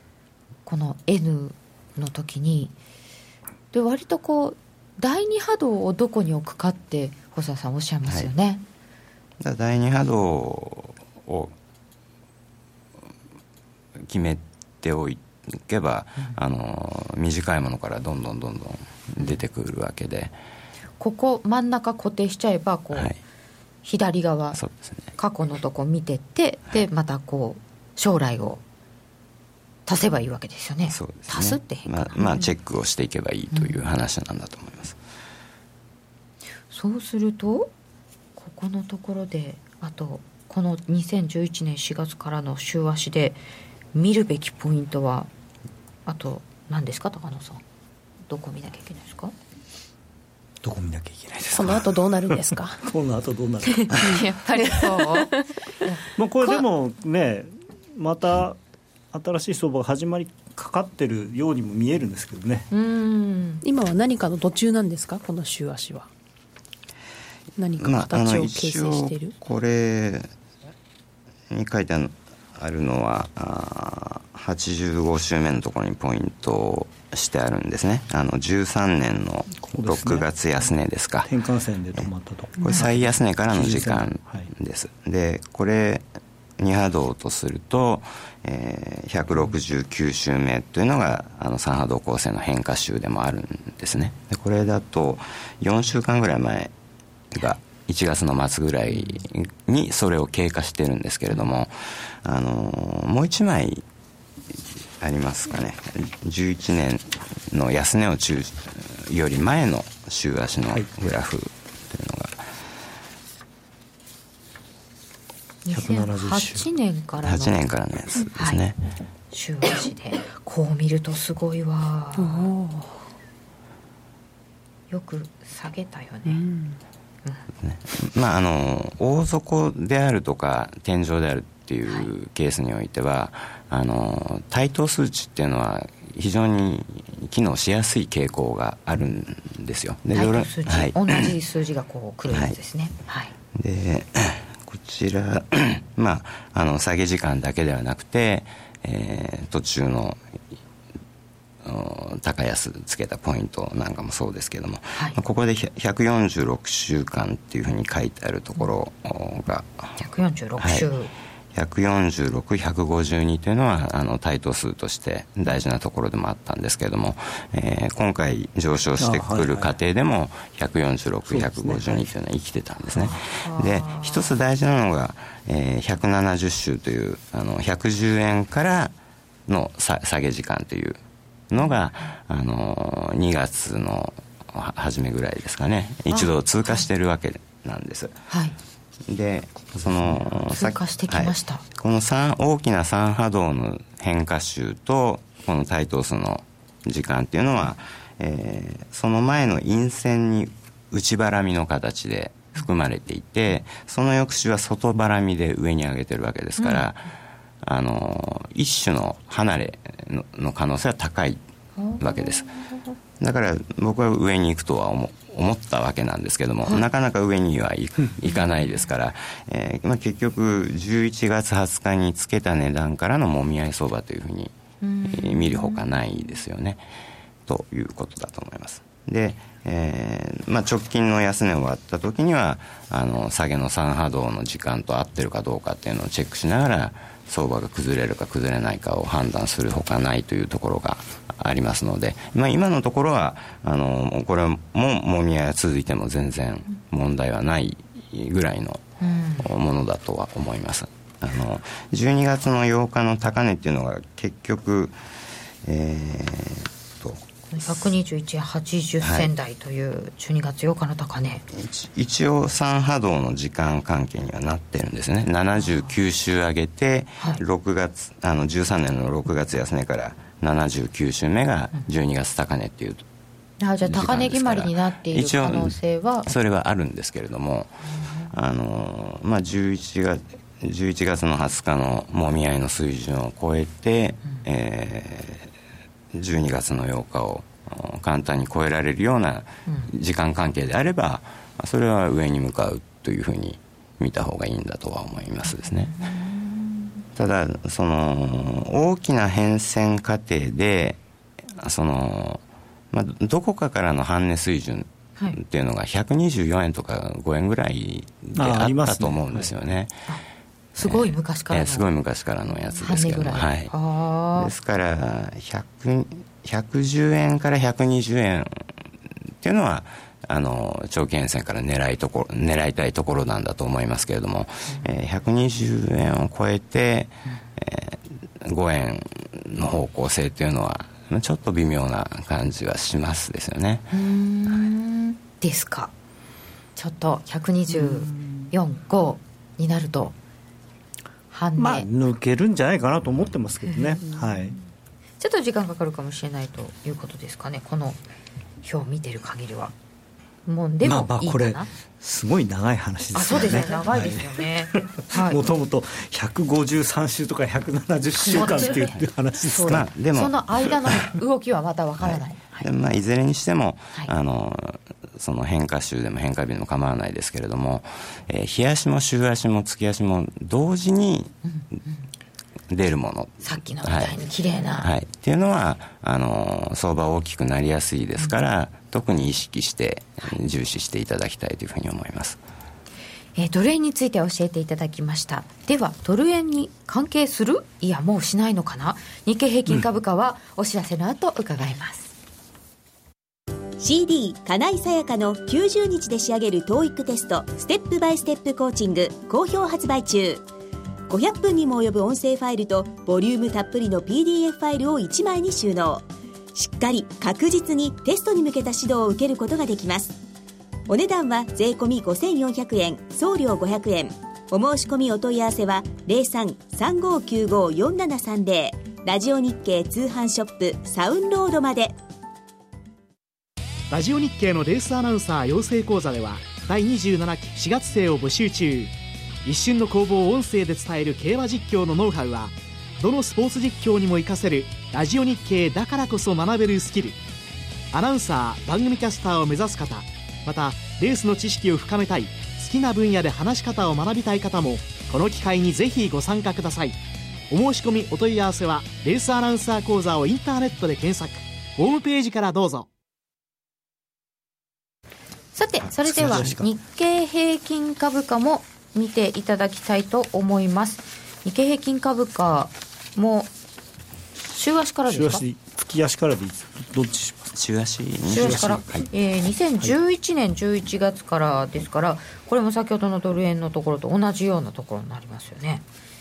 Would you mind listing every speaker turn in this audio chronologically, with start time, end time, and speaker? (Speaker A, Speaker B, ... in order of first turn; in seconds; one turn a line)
Speaker A: 0.7-2.7
Speaker A: 3.7-8.6
Speaker B: 9.4-11.5
Speaker B: 14.0-20.3
Speaker A: 21.0-23.1
Speaker B: 22.9-23.2
Speaker A: 23.9-24.6
Speaker B: 24.5-25.1
Speaker A: 25.2-28.6
Speaker A: 29.9-32.5
Speaker B: 30.9-35.0
Speaker A: 33.5-33.8
Speaker A: 36.7-37.7
Speaker A: 38.4-43.4
Speaker A: 43.9-45.3
Speaker A: 46.1-47.6
Speaker A: 48.3-49.3
Speaker C: 50.6-54.2
Speaker D: 51.5-52.8
Speaker A: 53.9-56.6
Speaker D: 54.7-55.4
Speaker C: 56.2-58.6
Speaker C: 59.1-62.7
Speaker A: 62.7-63.6
Speaker D: 63.6-66.1
Speaker D: 67.6-69.3
Speaker B: 67.8-70.3
Speaker B: 71.5-81.3
Speaker C: 79.6-80.3
Speaker C: 81.2-84.5
Speaker B: 82.6-96.7
Speaker B: 97.3-103.9
Speaker B: 105.0-112.4
Speaker A: 115.7-117.6
Speaker C: 115.7-116.7
Speaker B: 117.2-118.8
Speaker A: 118.3-118.6
Speaker A: 119.3-122.4
Speaker D: 122.2-123.0
Speaker A: 124.9-126.4
Speaker D: 126.2-126.8
Speaker B: 127.6-141.3
Speaker A: 140.1-143.3
Speaker B: 142.3-142.6
Speaker B: 143.6-150.2
Speaker B: 151.6-159.9
Speaker A: 160.0-161.1
Speaker B: 160.6-160.9
Speaker B: 161.5-178.9
Speaker C: 169.0-169.8
Speaker C: 171.3-172.1
Speaker A: 173.0-174.3
Speaker B: 179.5-188.2
Speaker A: 186.1-186.9
Speaker A: 188.3-188.6
Speaker B: 189.1-207.0
Speaker A: 190.5-191.6
Speaker A: 206.6-206.9
Speaker B: 207.6-211.4
Speaker A: 211.8-212.8
Speaker B: 212.0-212.5
Speaker B: 213.2-224.6
Speaker A: 218.3-218.6
Speaker A: 224.8-225.8
Speaker B: 225.1-226.8
Speaker B: 227.5-248.8
Speaker A: 249.0-249.5
Speaker B: 249.4-255.0
Speaker B: 255.6-257.9
Speaker A: 257.5-261.4
Speaker B: 259.0-259.3
Speaker B: 261.5-273.1
Speaker A: 273.6-276.3
Speaker B: 273.8-285.5
Speaker B: 286.1-295.9
Speaker A: 295.5-296.4
Speaker B: 297.2-301.0
Speaker B: 301.5-310.0
Speaker C: 308.4-309.5
Speaker A: 310.8-311.9
Speaker B: 310.8-313.7
Speaker A: 312.8-314.5
Speaker B: 314.4-318.7
Speaker B: 319.4-333.9
Speaker A: 333.9-335.9
Speaker A: 336.8-340.1
Speaker C: 337.8-338.5
Speaker A: 341.3-341.9
Speaker C: 341.6-344.6
Speaker A: 345.2-348.0
Speaker A: 348.6-349.7
Speaker A: 350.5-351.7
Speaker C: 350.8-359.9
Speaker A: 353.1-355.4
Speaker A: 358.3-358.9
Speaker A: 359.5-362.7
Speaker B: 359.7-360.4
Speaker B: 362.0-371.4
Speaker B: 372.7-374.2
Speaker A: 373.4-374.9
Speaker B: 374.8-382.4
Speaker A: 383.4-392.1
Speaker E: 393.8-400.4
Speaker E: 401.1-410.2
Speaker E: 410.9-422.0
Speaker F: 423.9-428.9
Speaker F: 429.4-437.2
Speaker F: 437.9-447.0
Speaker F: 447.5-452.9
Speaker A: 455.5-463.5
Speaker C: 456.0-456.7
Speaker A: 464.5-465.4
Speaker C: 465.1-467.5
Speaker B: 467.6-469.1
Speaker C: 468.3-469.1
Speaker A: 468.3-475.8